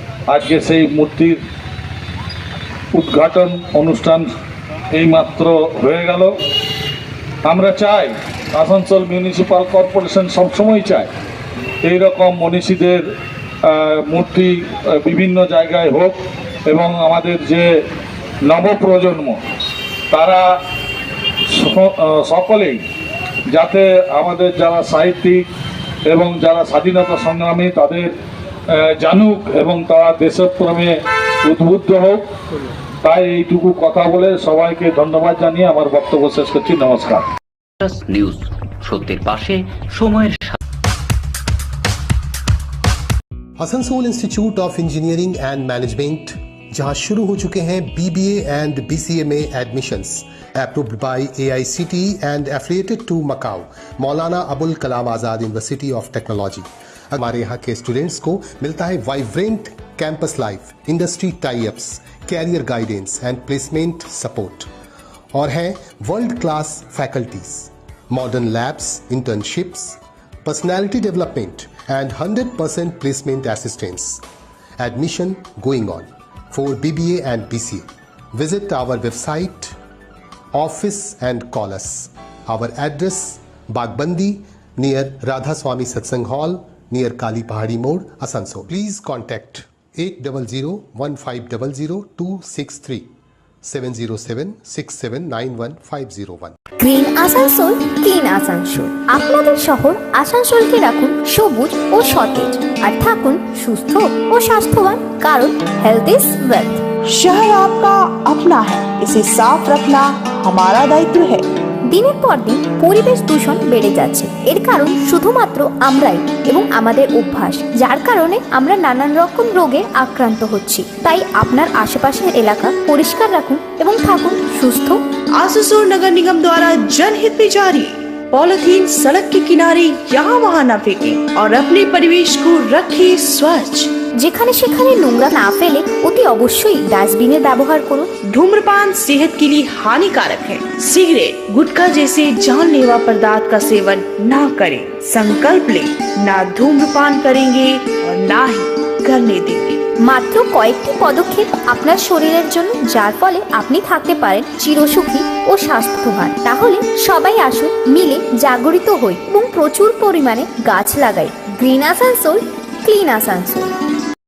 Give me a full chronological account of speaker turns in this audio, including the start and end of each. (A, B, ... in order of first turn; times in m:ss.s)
0:00.3-0:01.4 A
0:02.9-0:04.2 A
0:04.9-0:06.3 A
0:07.4-0:11.1 A
0:11.8-0:13.0 A
0:13.6-0:16.1 A
0:16.7-0:17.6 A
0:18.5-0:19.4 A
0:20.1-0:20.4 A
0:21.5-0:22.8 A
0:23.5-0:25.4 A
0:26.1-0:28.1 A
0:28.7-0:30.9 A
0:31.4-0:32.2 A
0:33.0-0:37.2 A
0:37.8-0:40.6 B
0:43.6-1:04.7 C
1:05.3-1:14.2 C
1:14.8-1:19.8 C
1:20.5-1:33.1 C
1:33.6-1:36.6 C
1:36.8-1:46.8 D
1:47.1-1:51.5 E
1:51.9-2:05.0 D
2:05.4-2:13.9 E
2:14.2-2:18.1 D
2:18.3-2:29.8 E
2:30.0-2:43.7 D